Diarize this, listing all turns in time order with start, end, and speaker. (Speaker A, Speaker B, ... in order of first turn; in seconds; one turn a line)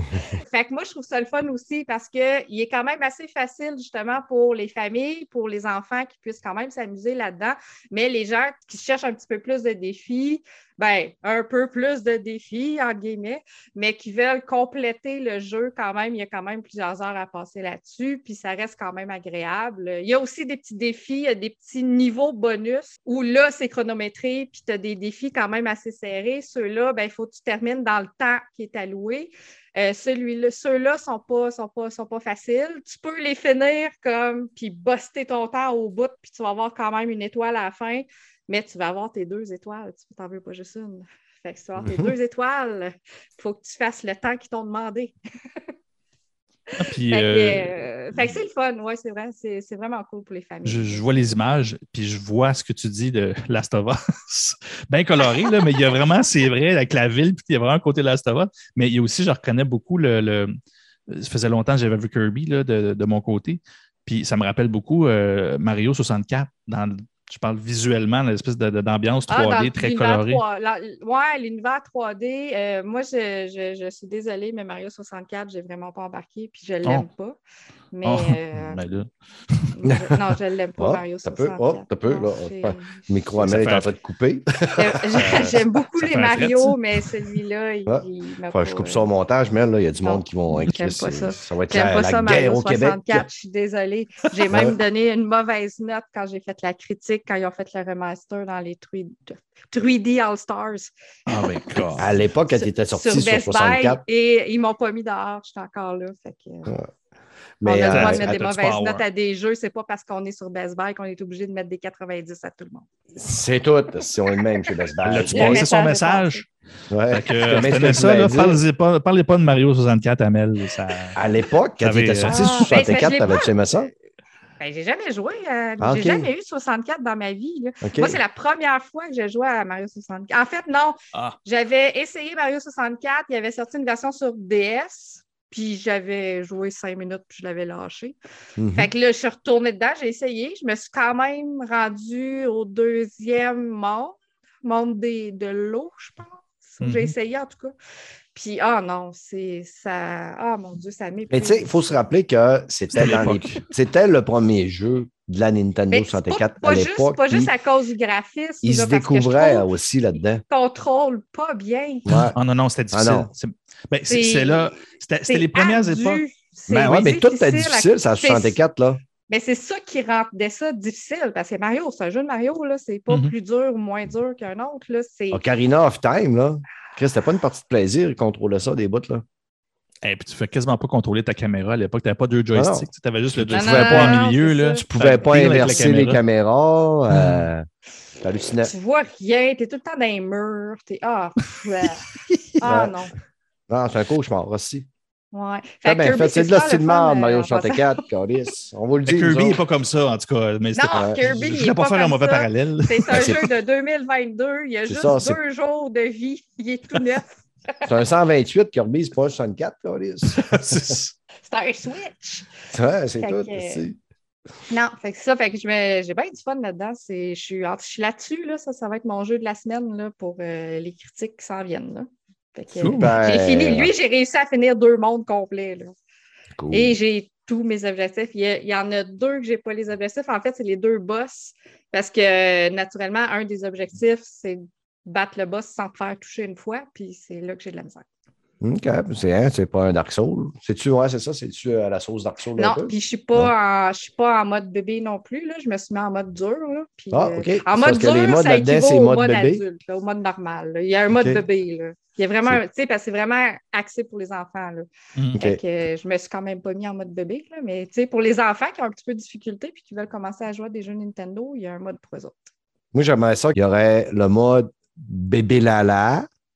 Speaker A: 0.3-45.1
Speaker A: 46.7-51.1
Speaker B: 46.8-47.7
Speaker B: 50.6-60.5
Speaker A: 55.4-55.7
Speaker B: 61.1-70.4
Speaker A: 69.3-77.4
Speaker A: 77.9-78.8
Speaker B: 78.0-79.6
Speaker A: 79.7-83.1
Speaker C: 80.8-85.5
Speaker B: 83.4-83.9
Speaker A: 84.7-89.1
Speaker B: 85.2-86.8
Speaker C: 87.9-93.3
Speaker A: 90.0-100.9
Speaker C: 94.5-94.8
Speaker B: 101.3-102.1
Speaker A: 101.7-106.7
Speaker C: 102.0-104.0
Speaker C: 107.6-108.2
Speaker A: 107.6-112.9
Speaker B: 107.9-109.0
Speaker C: 113.2-115.6
Speaker B: 115.0-116.5
Speaker A: 115.3-116.4
Speaker C: 116.9-118.6
Speaker B: 117.1-121.2
Speaker C: 121.2-123.9
Speaker B: 121.8-122.5
Speaker A: 122.3-123.5
Speaker A: 124.6-138.2
Speaker C: 125.8-126.3
Speaker C: 127.8-128.2
Speaker C: 138.6-138.9
Speaker A: 138.7-147.7
Speaker B: 146.8-147.1
Speaker A: 148.3-151.7
Speaker C: 151.3-157.5
Speaker B: 152.9-153.6
Speaker A: 155.9-159.7
Speaker C: 158.6-160.4
Speaker A: 160.5-162.1
Speaker C: 162.1-162.4
Speaker B: 162.1-167.2
Speaker C: 162.9-163.3
Speaker A: 164.1-164.8
Speaker A: 165.3-168.6
Speaker C: 166.8-169.0
Speaker A: 169.3-175.4
Speaker C: 175.3-179.2
Speaker B: 180.0-186.2
Speaker C: 182.6-184.2
Speaker A: 183.5-185.8
Speaker C: 184.9-187.7
Speaker B: 187.1-187.5
Speaker C: 188.2-188.7
Speaker A: 188.7-192.1
Speaker A: 192.6-193.1
Speaker C: 192.6-192.9
Speaker C: 193.7-194.9
Speaker A: 195.3-197.8
Speaker C: 195.8-199.6
Speaker B: 199.1-203.4
Speaker A: 200.8-207.3
Speaker C: 200.9-201.2
Speaker C: 203.1-203.4
Speaker C: 204.9-205.4
Speaker C: 207.8-211.0
Speaker B: 210.3-211.1
Speaker A: 211.4-212.5
Speaker C: 212.7-214.0
Speaker A: 213.2-213.8
Speaker A: 214.7-225.9
Speaker B: 222.8-223.1
Speaker C: 222.9-223.9
Speaker C: 226.6-226.9
Speaker A: 226.7-238.1
Speaker C: 238.6-243.5
Speaker A: 242.6-262.5
Speaker C: 247.1-249.6
Speaker C: 251.1-251.4
Speaker B: 255.2-255.4
Speaker C: 255.3-255.6
Speaker C: 262.9-266.3